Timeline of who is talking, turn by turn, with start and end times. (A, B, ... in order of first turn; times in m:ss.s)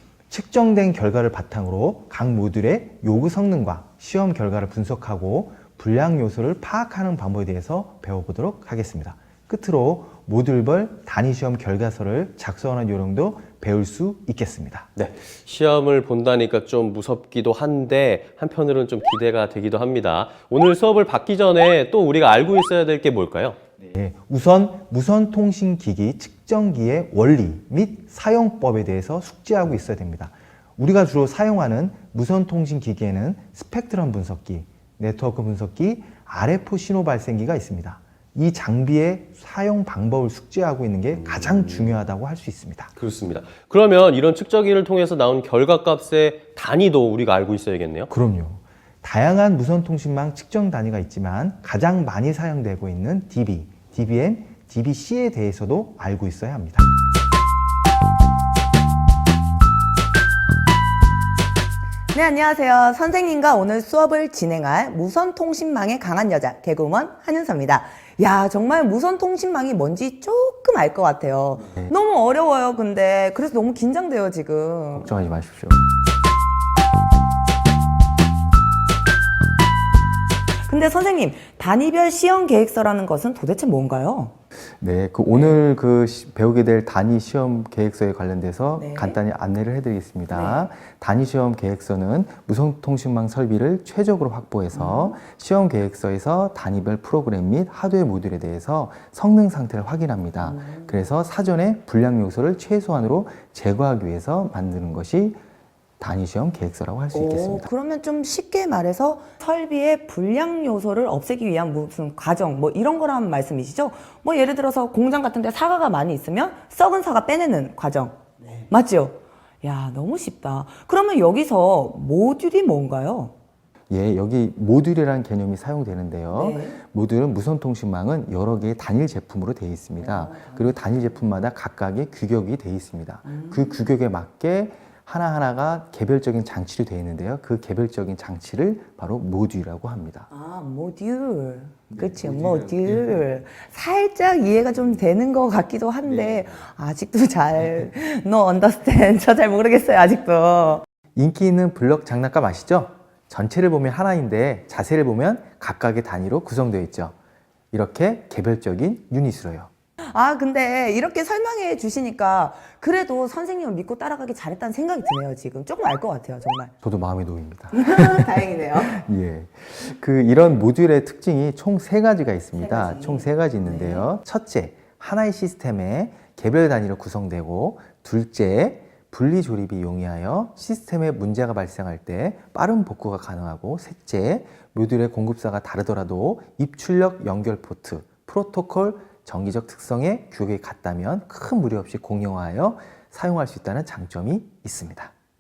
0:00.3-0:14.9 A
0:15.0-0:23.6 B
0:23.9-0:42.9 A
0:41.3-0:41.9 B
0:43.0-0:48.1 B
0:48.1-0:56.9 A
1:02.1-1:15.1 C
1:15.0-1:15.8 A
1:20.7-1:24.4 C
1:24.8-1:45.4 A
1:28.8-1:29.2 C
1:30.3-1:30.7 C
1:34.7-1:35.2 C
1:40.4-1:41.0 C
1:46.0-1:47.7 A
1:47.1-2:03.3 C
2:03.9-2:20.3 A
2:06.3-2:06.8 C
2:10.0-2:10.8 C
2:13.2-2:13.9 C
2:20.3-2:30.8 C
2:22.2-2:22.7 A
2:31.2-2:37.2 A
2:37.7-2:39.7 A
2:40.1-2:46.7 C
2:46.8-3:15.1 A
2:47.7-2:49.0 C
2:52.6-2:54.1 C